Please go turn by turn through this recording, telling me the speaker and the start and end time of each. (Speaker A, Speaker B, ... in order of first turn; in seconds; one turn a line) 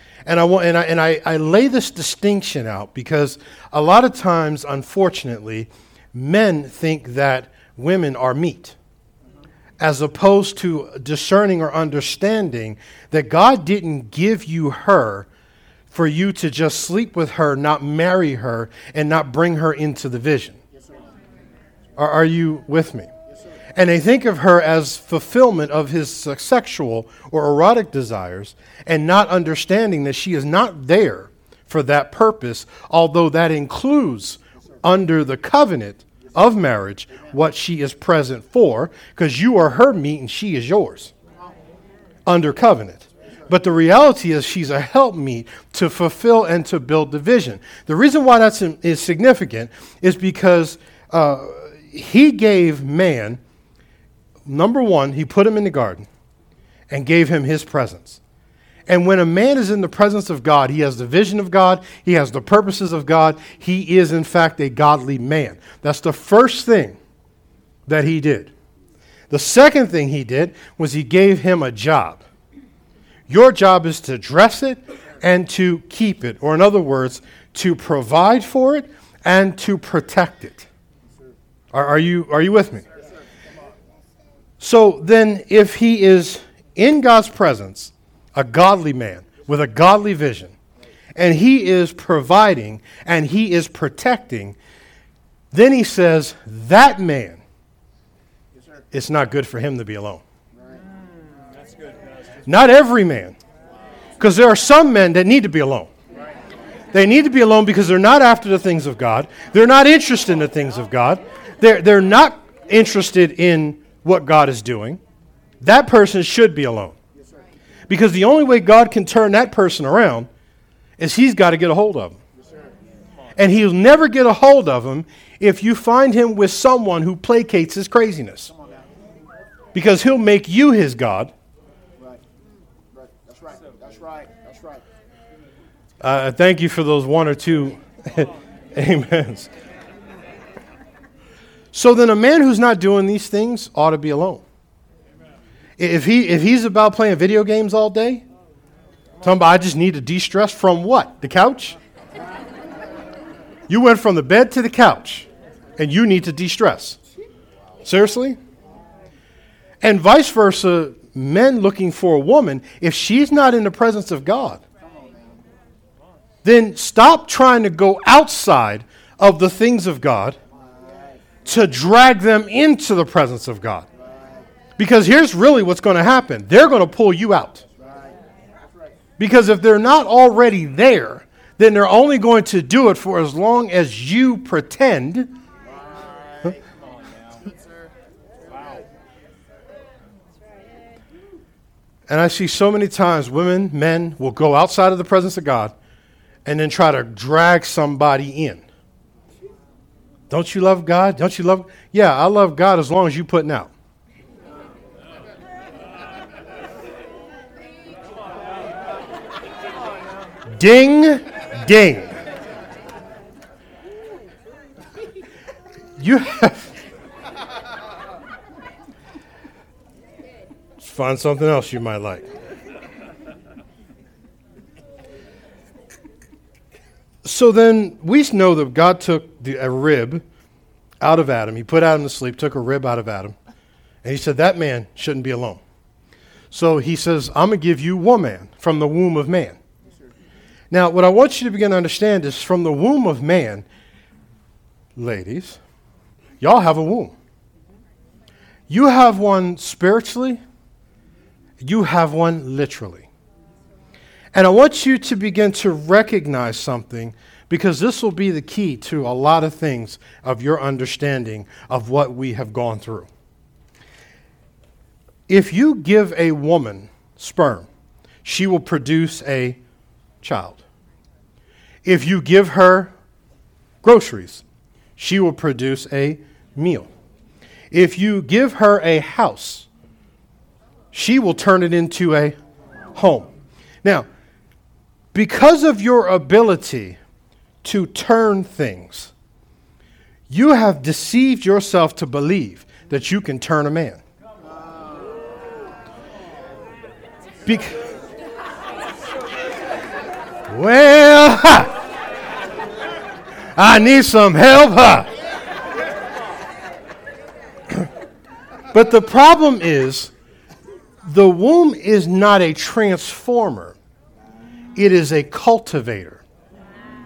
Speaker A: 0.2-8.8
Speaker A: 9.8-15.3
Speaker A: 15.9-20.6
Speaker B: 20.7-21.1
Speaker A: 22.0-23.1
Speaker B: 23.3-23.6
Speaker A: 23.7-41.1
Speaker A: 42.2-53.4
Speaker A: 54.5-56.1
Speaker A: 56.9-58.2
Speaker A: 58.9-67.0
Speaker A: 67.9-68.5
Speaker A: 69.3-72.2
Speaker A: 73.3-80.7
Speaker A: 81.7-82.8
Speaker B: 83.0-83.5
Speaker A: 84.6-90.5
Speaker A: 91.1-94.6
Speaker A: 95.5-97.4
Speaker B: 98.5-98.8
Speaker A: 98.9-100.2
Speaker B: 100.5-100.9
Speaker A: 102.4-103.3
Speaker A: 104.2-105.9
Speaker A: 106.9-115.0
Speaker A: 115.6-117.0
Speaker B: 117.2-117.4
Speaker A: 117.9-120.3
Speaker A: 121.0-122.2
Speaker B: 122.3-123.0
Speaker A: 123.3-128.5
Speaker B: 128.5-129.1
Speaker A: 129.7-131.3
Speaker B: 132.9-134.9
Speaker A: 136.0-139.5
Speaker A: 141.7-144.4
Speaker A: 145.8-148.2
Speaker A: 149.2-151.8
Speaker A: 153.7-157.0
Speaker A: 157.8-158.4
Speaker A: 159.8-164.6
Speaker B: 164.8-165.5
Speaker A: 166.4-170.4
Speaker B: 170.5-171.2
Speaker A: 171.4-173.8
Speaker B: 173.9-174.5
Speaker A: 174.8-177.6
Speaker B: 177.8-178.9
Speaker A: 179.2-185.3
Speaker B: 185.6-187.9
Speaker B: 188.5-188.8
Speaker A: 192.1-195.7
Speaker A: 196.4-198.6
Speaker A: 200.3-203.7
Speaker A: 210.5-212.2
Speaker A: 216.0-216.7
Speaker A: 220.8-222.3
Speaker A: 227.2-230.2
Speaker A: 231.0-233.3
Speaker A: 234.0-235.6
Speaker A: 236.5-239.6
Speaker A: 240.7-243.6
Speaker A: 244.9-245.6
Speaker A: 246.4-247.1
Speaker A: 248.7-250.4
Speaker A: 251.6-253.1
Speaker A: 254.3-263.1
Speaker A: 265.3-267.7
Speaker A: 268.2-269.6
Speaker A: 270.2-270.6
Speaker A: 271.8-272.9
Speaker A: 273.8-274.4
Speaker A: 275.0-276.9
Speaker A: 277.7-279.7
Speaker A: 280.9-282.4
Speaker A: 282.9-283.3
Speaker A: 285.1-287.0
Speaker A: 287.6-289.1
Speaker A: 290.3-294.0
Speaker B: 294.4-295.6
Speaker A: 297.4-297.8
Speaker A: 300.5-301.8
Speaker A: 303.5-305.1
Speaker A: 308.7-310.1
Speaker A: 311.0-313.8
Speaker A: 314.7-316.2